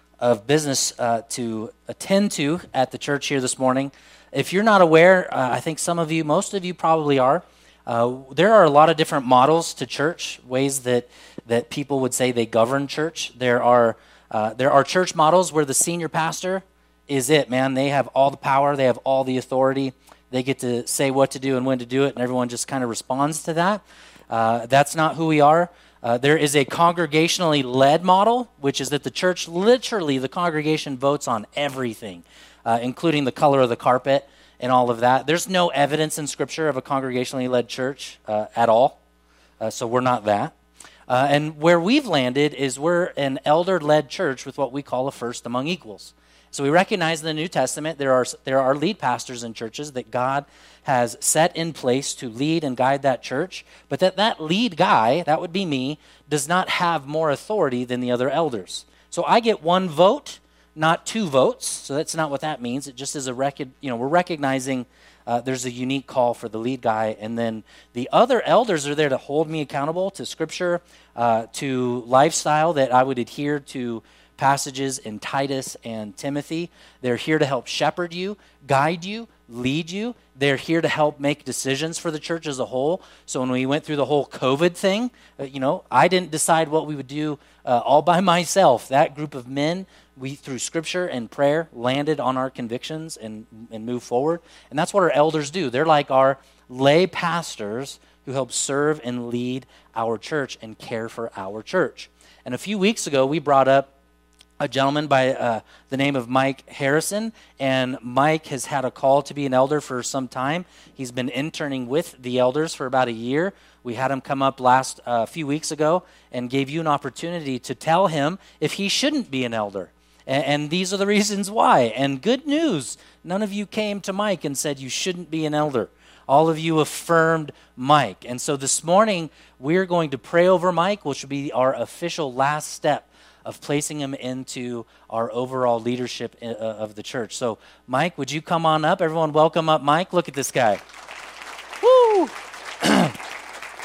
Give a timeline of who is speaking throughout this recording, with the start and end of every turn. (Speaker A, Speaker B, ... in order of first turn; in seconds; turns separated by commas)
Speaker A: 0.2-39.0, Speaker A: 39.6-40.5, Speaker A: 41.1-103.9, Speaker A: 104.6-140.8, Speaker A: 141.8-143.2